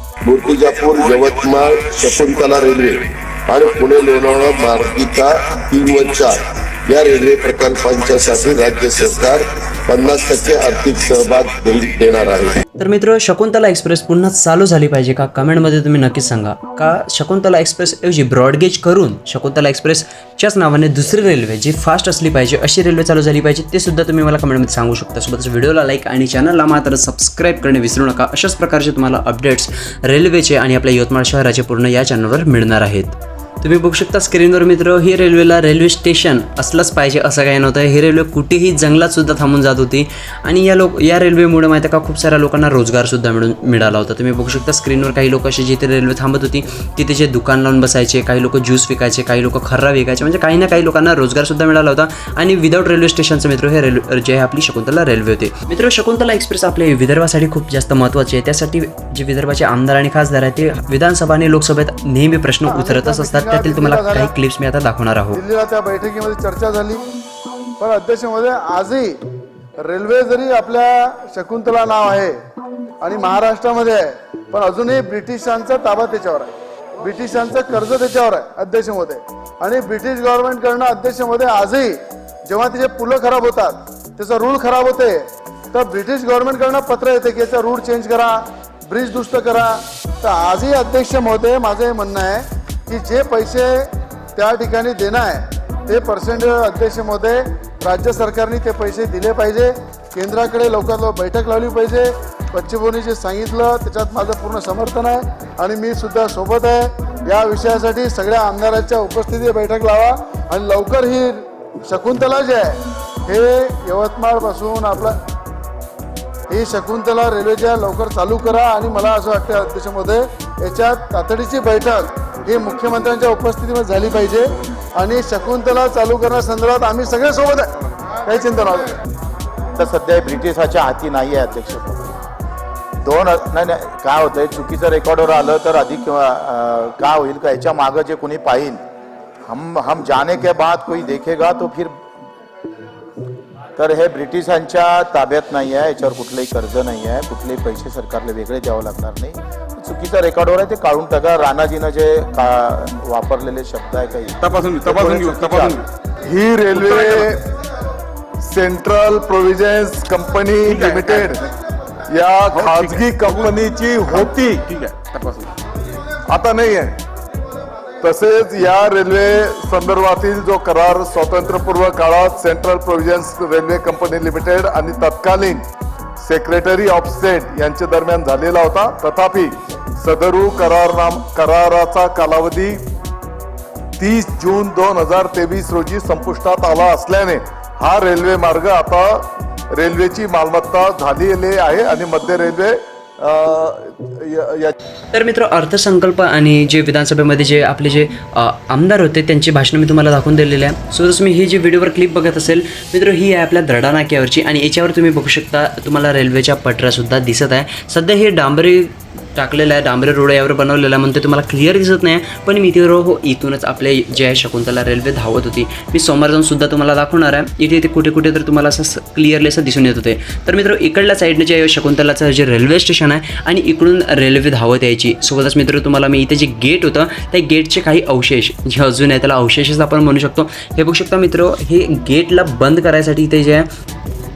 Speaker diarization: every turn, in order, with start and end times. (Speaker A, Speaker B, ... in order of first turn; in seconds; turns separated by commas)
Speaker A: 0.2-12.6, Speaker B: 12.8-65.4, Speaker C: 62.6-64.3, Speaker C: 65.3-67.0, Speaker C: 67.8-69.2, Speaker C: 69.8-72.3, Speaker C: 73.0-115.2, Speaker C: 116.5-127.7, Speaker C: 128.2-128.9, Speaker D: 129.8-132.0, Speaker D: 133.0-138.8, Speaker D: 139.5-141.9, Speaker D: 143.8-155.8, Speaker E: 154.5-155.8, Speaker F: 156.3-157.4, Speaker C: 156.7-157.2, Speaker F: 158.5-161.4, Speaker E: 160.7-161.3, Speaker F: 162.1-164.5, Speaker E: 162.5-163.4, Speaker E: 164.2-165.3, Speaker F: 166.3-167.0, Speaker F: 168.0-175.6, Speaker F: 176.2-182.8, Speaker F: 184.0-194.7, Speaker B: 195.1-233.7